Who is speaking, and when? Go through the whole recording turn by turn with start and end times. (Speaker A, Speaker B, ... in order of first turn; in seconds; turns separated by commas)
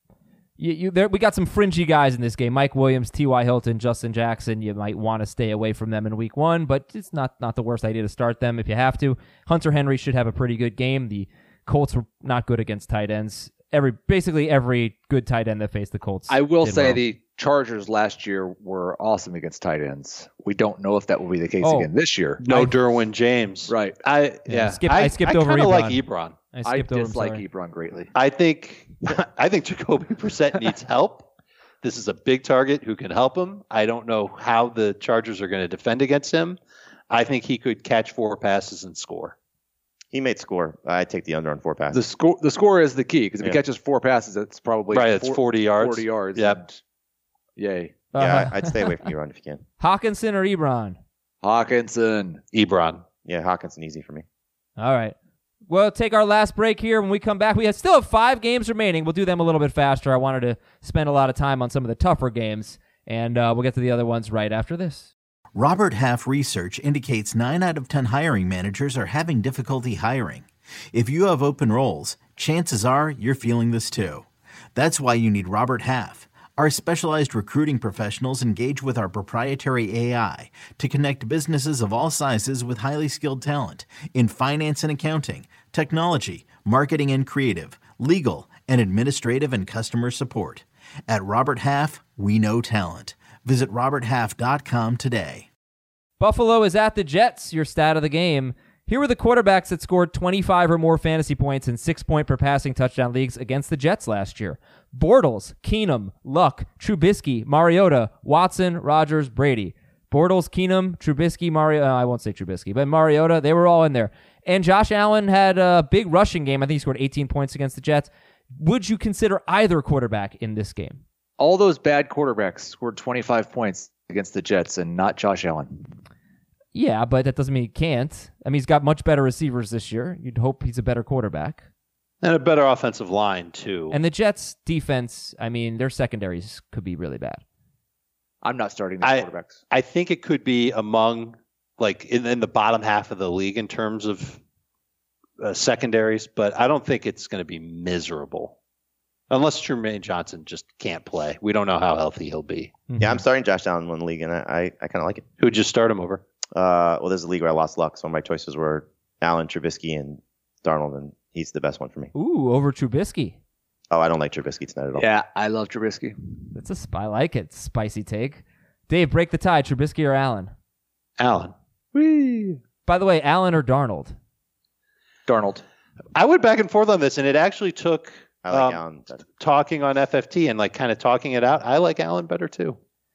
Speaker A: 0.6-17.0, Speaker B: 16.3-22.4, Speaker A: 21.6-21.9, Speaker C: 22.4-26.4, Speaker B: 23.7-24.0, Speaker A: 24.5-26.0, Speaker A: 26.5-27.4, Speaker B: 26.6-28.1, Speaker C: 28.1-31.3, Speaker C: 31.8-36.6, Speaker C: 37.1-39.4, Speaker D: 40.1-42.0, Speaker B: 41.9-46.8, Speaker C: 44.9-46.6, Speaker B: 47.6-48.0, Speaker A: 48.1-48.9, Speaker D: 48.2-49.6, Speaker A: 49.8-51.0, Speaker B: 51.4-52.4, Speaker C: 52.5-53.0, Speaker D: 53.2-54.2, Speaker A: 54.8-55.1, Speaker A: 55.7-65.1, Speaker E: 65.5-95.5, Speaker A: 96.2-121.0, Speaker B: 121.4-125.9, Speaker A: 126.7-131.6, Speaker C: 132.2-134.0, Speaker A: 133.9-137.4, Speaker B: 138.4-139.6, Speaker C: 139.0-144.4, Speaker C: 145.4-148.6, Speaker C: 149.3-152.9, Speaker A: 152.9-153.2, Speaker D: 153.0-155.2, Speaker C: 155.4-156.2, Speaker D: 156.5-162.1, Speaker A: 162.1-163.4, Speaker D: 163.9-165.1, Speaker B: 164.9-166.2, Speaker A: 166.6-170.5, Speaker C: 171.2-172.6, Speaker A: 172.9-174.2, Speaker B: 175.3-175.6, Speaker C: 176.2-182.8, Speaker D: 178.4-179.2